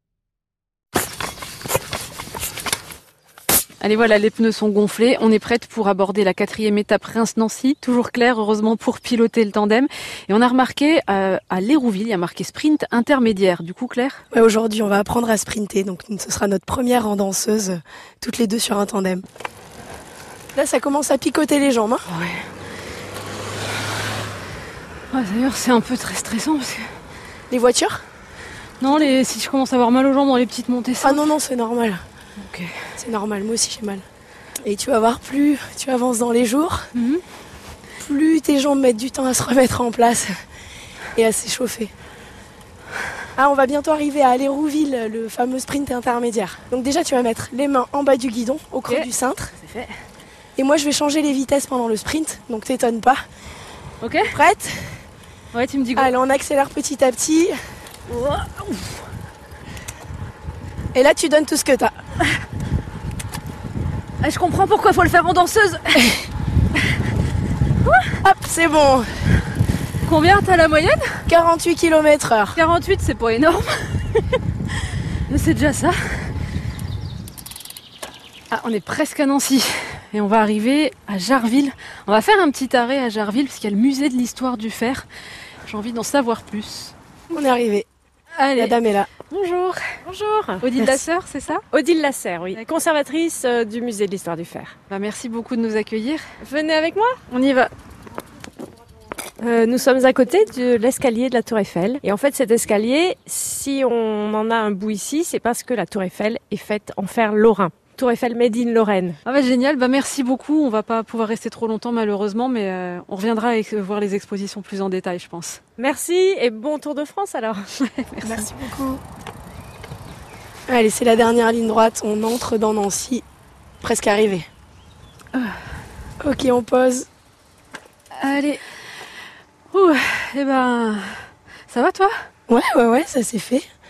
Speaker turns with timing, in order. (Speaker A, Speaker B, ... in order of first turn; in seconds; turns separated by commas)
Speaker A: 3.8-14.2, Speaker B: 14.3-19.2, Speaker B: 20.5-22.1, Speaker A: 22.1-22.5, Speaker A: 25.1-26.9, Speaker B: 27.5-28.0, Speaker A: 28.8-31.3, Speaker B: 31.0-32.0, Speaker A: 32.4-32.7, Speaker B: 33.0-34.0, Speaker B: 34.6-36.8, Speaker A: 36.9-37.2, Speaker B: 38.0-40.3, Speaker B: 41.1-41.9, Speaker B: 43.4-49.5, Speaker A: 48.9-50.0, Speaker B: 50.6-53.2, Speaker A: 54.0-54.3, Speaker B: 54.3-55.0, Speaker A: 55.5-56.1, Speaker B: 56.0-57.6, Speaker A: 58.1-59.0, Speaker B: 60.9-61.9, Speaker A: 64.2-66.1, Speaker B: 68.2-69.1, Speaker A: 70.0-71.2, Speaker B: 71.3-72.6, Speaker A: 72.5-74.2, Speaker A: 75.3-76.3, Speaker A: 78.5-85.1, Speaker A: 85.7-86.9, Speaker B: 87.3-87.9, Speaker A: 88.4-89.8, Speaker B: 88.6-89.1, Speaker C: 90.0-90.9, Speaker A: 90.6-91.6, Speaker C: 91.7-94.8, Speaker A: 94.9-96.2, Speaker C: 96.4-97.2, Speaker A: 97.3-97.7, Speaker C: 99.4-109.2, Speaker A: 109.2-115.6, Speaker C: 115.8-117.7, Speaker A: 117.8-118.5, Speaker B: 118.2-119.0, Speaker B: 120.7-123.2, Speaker B: 123.8-124.5, Speaker B: 126.2-127.1, Speaker A: 128.2-128.6, Speaker A: 129.7-131.2, Speaker A: 131.7-132.1, Speaker B: 132.5-133.6